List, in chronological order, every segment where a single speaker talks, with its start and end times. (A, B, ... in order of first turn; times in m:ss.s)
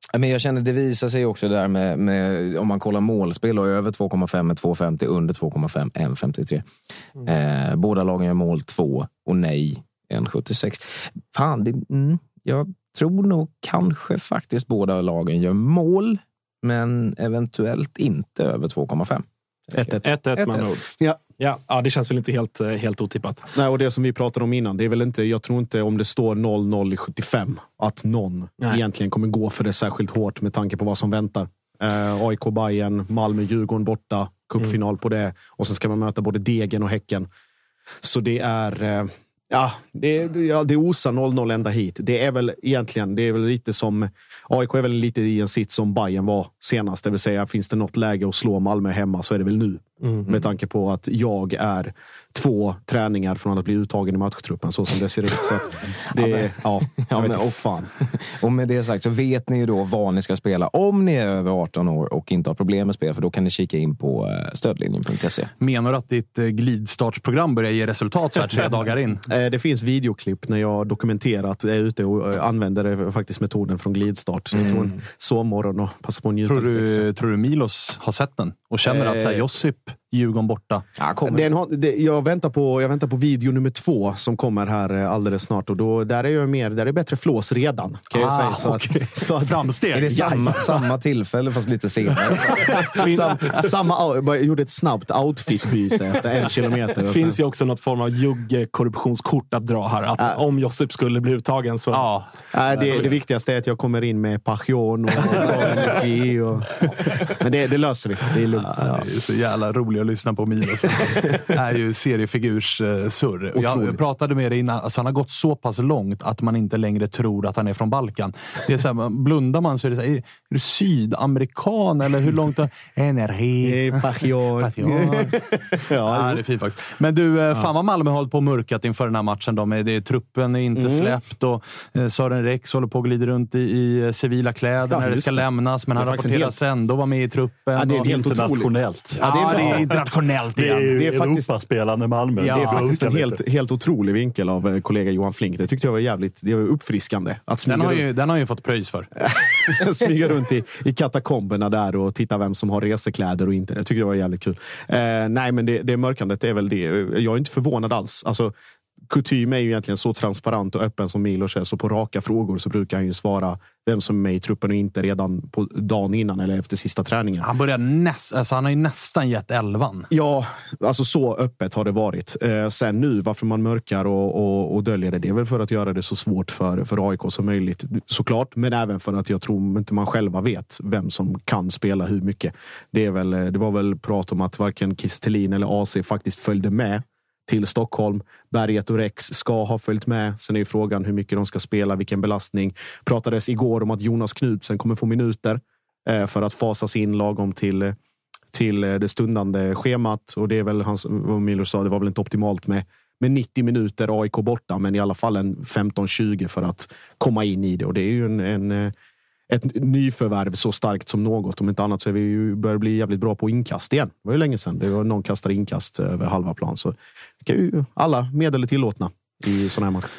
0:00.1-0:06.7 A
0:07.2-0:20.7 A
0:19.7-0:20.0 B
0:20.0-0:20.8 C
0:21.4-0:23.5 C
0:23.5-0:37.3 B
0:38.0-0:57.9 B
0:56.2-1:05.5 A
1:05.6-1:09.2 D
1:09.3-1:17.1 B
1:14.6-1:14.9 A
1:16.4-1:20.8 D
1:18.8-1:19.5 B
1:21.0-1:21.5 A
1:21.2-1:30.6 B
1:28.1-1:30.5 D
1:29.9-1:32.8 A
1:33.0-1:37.4 B
1:33.0-1:33.4 C
1:37.1-1:42.0 C
1:41.9-1:42.2 D
1:42.5-1:49.0 B
1:48.7-2:05.4 D
1:53.5-1:54.0 B
2:03.6-2:06.4 B
2:06.0-2:18.1 D
2:10.8-2:11.2 B
2:14.9-2:16.6 B
2:17.7-2:19.9 B
2:18.0-2:19.9 E
2:19.2-2:21.0 D
2:20.5-2:23.4 E
2:20.9-2:21.4 B
2:22.4-2:28.0 B
2:22.4-2:22.9 D
2:27.6-2:29.1 D
2:29.2-2:38.5 B
2:39.1-2:47.5 B
2:47.4-2:50.1 D
2:50.1-3:18.0 B
3:18.5-3:28.9 B
3:29.5-3:40.1 B